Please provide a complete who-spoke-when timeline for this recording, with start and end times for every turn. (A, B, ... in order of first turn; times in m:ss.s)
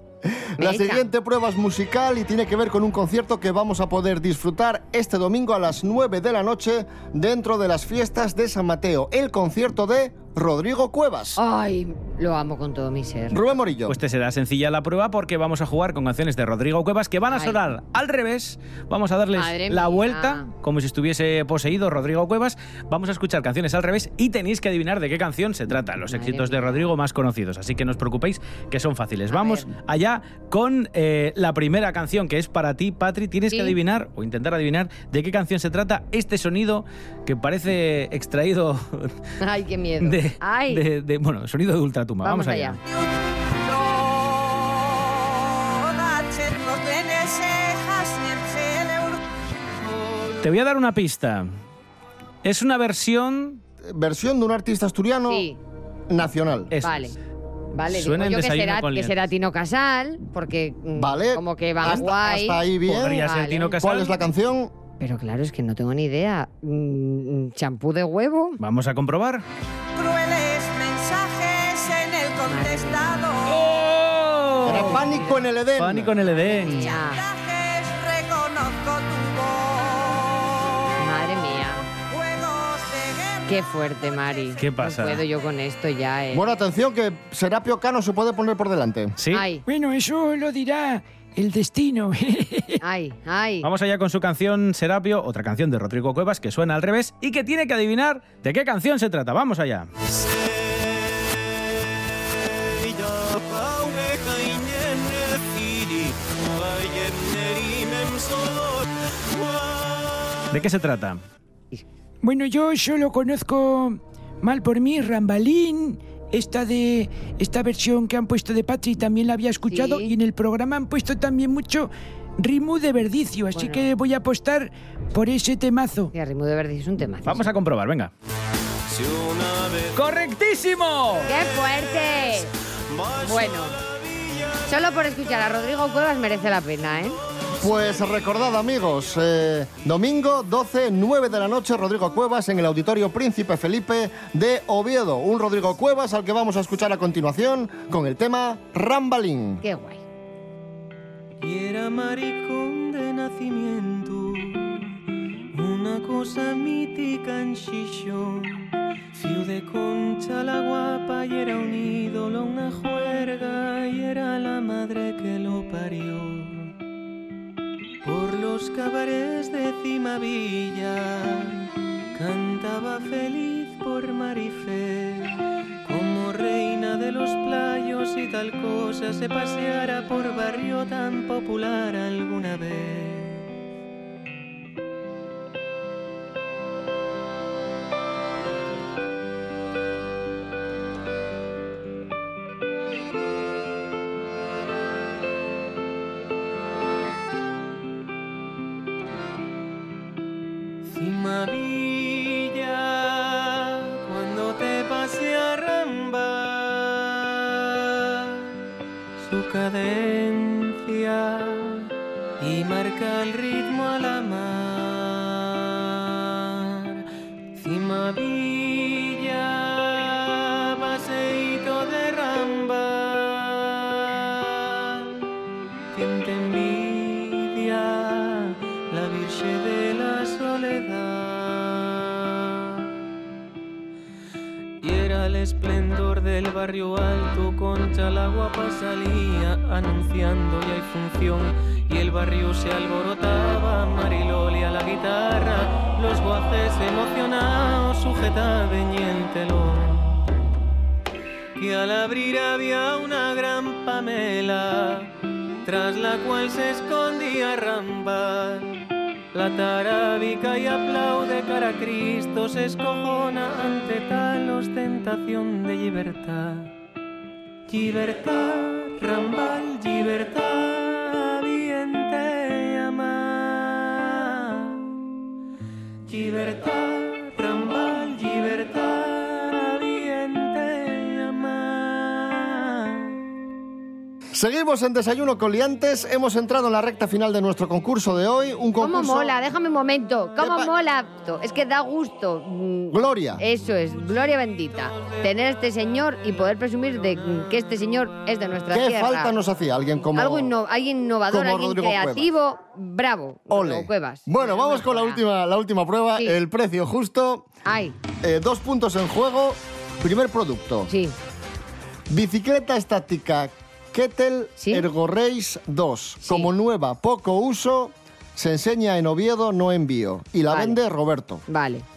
0:00.4-0:11.4 A
0:00.6-0:01.0 B
0:11.4-0:13.4 B
0:13.3-0:14.0 A
0:13.9-0:39.1 C
0:17.3-0:17.6 B
0:19.4-0:20.5 B
0:26.1-0:26.9 B
0:29.3-0:29.7 B
0:33.5-0:33.8 B
0:39.4-0:40.8 B
0:40.0-0:42.8 C
0:42.2-0:42.8 B
0:42.9-0:49.2 D
0:50.4-0:51.5 C
0:52.4-0:53.6 C
0:53.8-0:55.5 A
0:55.3-0:55.6 B
0:56.1-0:56.7 A
0:56.7-0:57.1 C
0:56.8-0:57.2 B
0:57.7-1:03.8 B
0:57.9-0:59.2 C
1:01.0-1:03.2 A
1:02.9-1:04.2 C
1:03.8-1:04.7 A
1:05.0-1:08.6 B
1:08.6-1:09.4 C
1:10.0-1:13.7 D
1:12.5-1:13.2 B
1:13.5-1:15.0 C
1:14.6-1:16.2 A
1:14.7-1:15.4 B
1:15.8-1:17.0 C
1:16.4-1:17.2 B
1:16.6-1:20.7 D
1:21.0-1:21.8 B
1:22.0-1:23.6 D
1:23.5-1:26.5 B
1:24.2-1:24.5 D
1:24.6-1:25.2 C
1:26.3-1:29.2 A
1:29.2-1:29.4 C
1:29.3-1:29.6 B
1:29.7-1:32.8 E
1:32.8-1:33.7 B
1:33.6-1:39.9 C
1:50.5-1:51.2 C
1:52.2-2:06.1 E
1:59.7-2:00.1 B
2:03.5-2:03.9 B
2:06.1-2:07.5 B
2:07.3-2:08.1 C
2:09.9-2:11.3 C
2:11.2-2:12.5 B
2:13.2-2:13.8 B
2:14.6-2:17.2 B
2:17.6-2:29.6 A
2:29.6-2:30.0 B
2:31.4-2:35.0 F
2:35.5-2:46.7 F
2:48.0-3:03.5 F
3:20.8-3:27.9 F
3:29.2-3:31.9 F
3:32.4-3:37.0 F
3:37.6-3:45.0 F
3:45.9-3:52.8 F
3:54.8-4:10.2 F
4:11.6-4:15.1 F
4:15.6-4:18.8 F
4:19.3-4:26.7 F
4:27.7-4:34.8 F
4:36.1-4:43.2 F
4:44.3-4:49.3 A
4:48.8-4:59.4 B
4:50.4-4:50.7 A
4:52.9-4:53.4 A
4:54.2-4:54.5 F
4:58.7-5:00.6 A
5:00.1-5:05.2 B
5:01.3-5:02.3 A
5:03.5-5:07.5 A
5:07.6-5:08.0 B
5:08.2-5:10.9 A
5:10.9-5:11.2 B
5:12.1-5:21.4 A
5:14.6-5:14.9 B
5:16.2-5:16.5 B
5:20.5-5:20.8 B
5:21.5-5:21.8 B